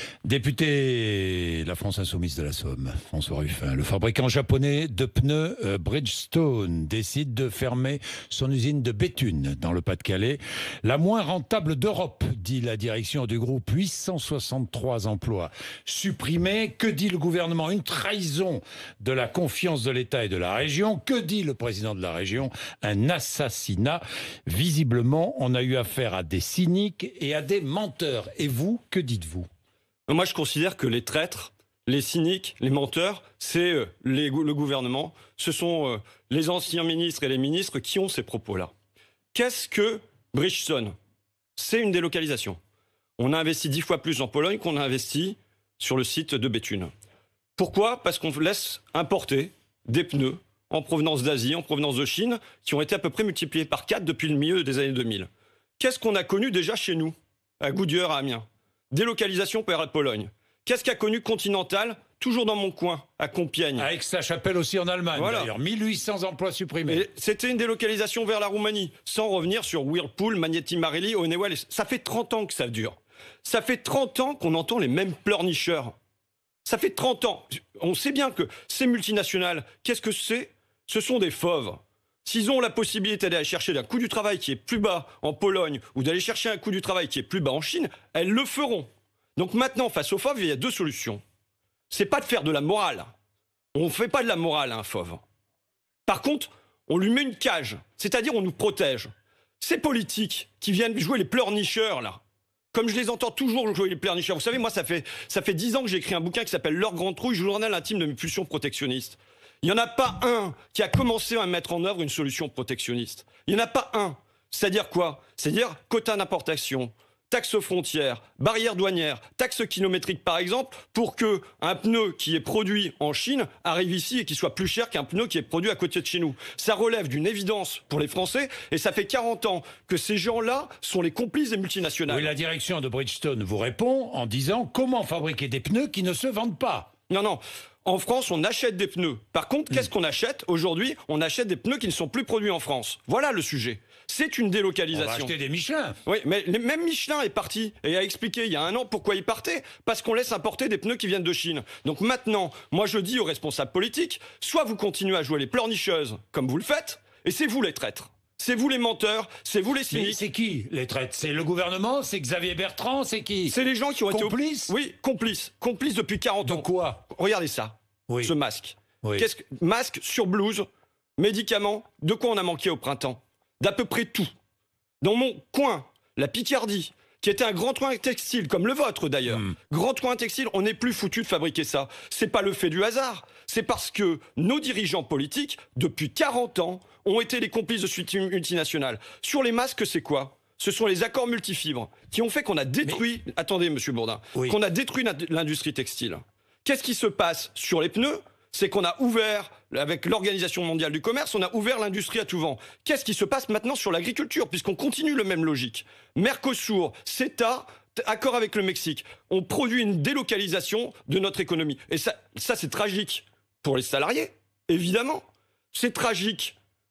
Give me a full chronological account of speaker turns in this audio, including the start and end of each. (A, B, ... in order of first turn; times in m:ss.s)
0:00.2-0:29.5 A
0:30.1-0:38.7 B
0:39.3-0:41.0 B
0:41.6-0:42.6 B
0:43.2-0:46.9 B
0:47.6-1:03.9 B
1:03.8-1:07.1 A
1:05.2-1:05.5 B
1:06.9-1:15.9 B
1:16.6-1:31.2 B
1:31.9-1:33.1 B
1:33.7-1:35.2 B
1:36.1-1:39.1 B
1:39.6-1:42.2 B
1:42.7-2:12.3 B
2:12.1-2:16.9 A
2:17.1-2:25.3 B
2:24.9-2:26.0 A
2:26.0-2:40.2 B
2:39.9-2:43.6 A
2:43.5-2:50.7 B
2:44.1-2:44.7 A
2:46.4-2:47.0 A
2:49.0-2:49.3 A
2:51.2-2:54.3 B
2:55.0-3:36.6 B